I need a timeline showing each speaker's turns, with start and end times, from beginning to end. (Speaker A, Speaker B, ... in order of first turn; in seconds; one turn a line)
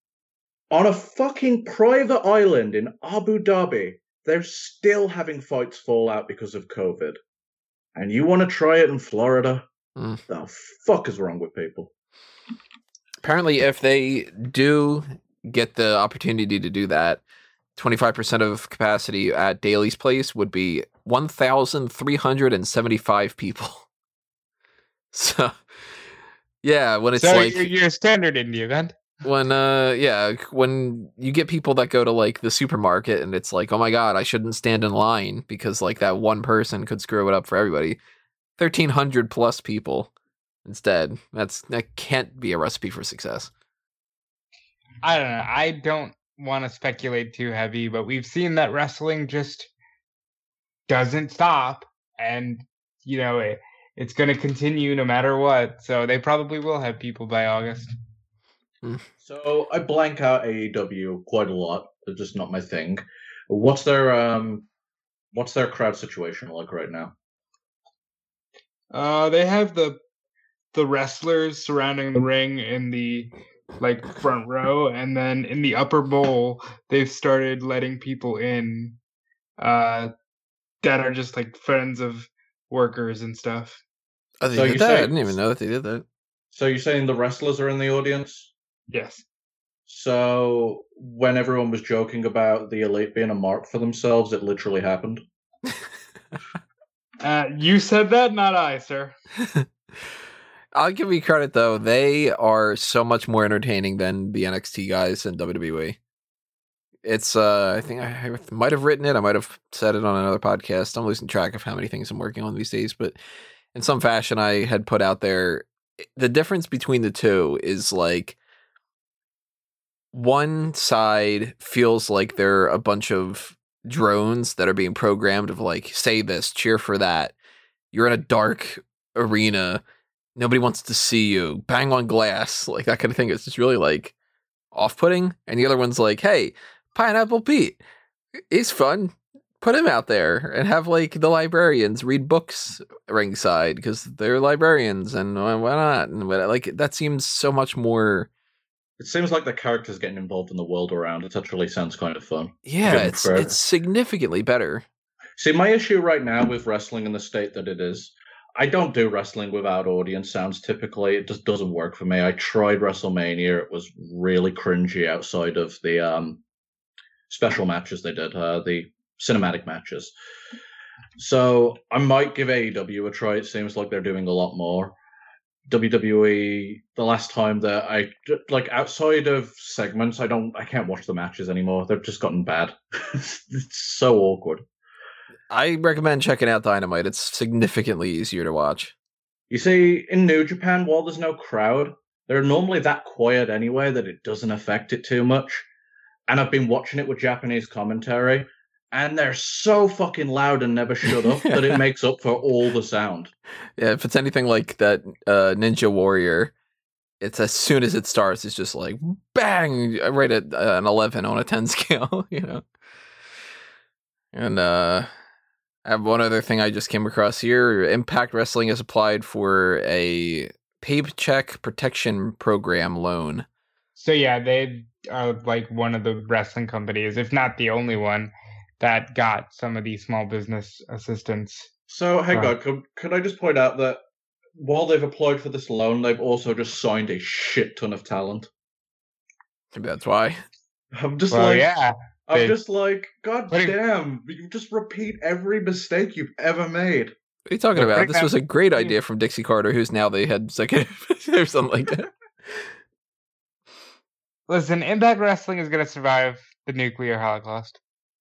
Speaker A: 0.7-7.2
Speaker A: 8.0-9.7
Speaker A: 10.3-11.9
Speaker B: 13.2-17.2
Speaker B: 17.8-23.9
Speaker B: 25.1-25.5
Speaker B: 26.6-27.7
Speaker C: 27.2-29.0
Speaker B: 29.2-38.0
Speaker B: 38.6-40.1
Speaker B: 40.6-43.5
Speaker C: 45.0-49.7
Speaker C: 50.9-57.9
Speaker A: 59.2-64.7
Speaker A: 65.3-67.1
Speaker C: 68.9-70.0
Speaker C: 70.7-79.0
Speaker C: 79.6-80.1
Speaker C: 80.8-83.8
Speaker B: 84.4-86.0
Speaker A: 84.5-85.3
Speaker A: 86.5-88.5
Speaker C: 88.9-89.2
Speaker A: 89.9-95.2
Speaker C: 97.2-99.1
Speaker B: 100.8-106.0
Speaker B: 107.0-113.2
Speaker B: 113.7-118.4
Speaker B: 120.1-127.3
Speaker B: 127.9-129.8
Speaker B: 130.4-134.1
Speaker B: 134.7-137.8
Speaker B: 138.4-148.3
Speaker A: 149.0-153.6
Speaker B: 152.7-154.9
Speaker A: 155.4-166.4
Speaker A: 167.3-170.1
Speaker A: 171.2-174.9
Speaker A: 175.7-184.6
Speaker B: 185.5-188.9
Speaker A: 189.5-195.7
Speaker A: 196.3-203.3
Speaker B: 201.1-201.8
Speaker B: 203.8-206.5
Speaker B: 207.2-212.6
Speaker B: 214.3-215.1
Speaker B: 215.8-223.5
Speaker C: 224.0-231.7
Speaker A: 231.9-234.0
Speaker A: 234.6-238.5
Speaker B: 239.7-240.4
Speaker A: 241.0-241.7
Speaker C: 241.3-242.6
Speaker A: 242.3-247.1
Speaker C: 243.5-243.8
Speaker B: 247.5-252.7
Speaker C: 247.8-248.9
Speaker C: 254.5-257.8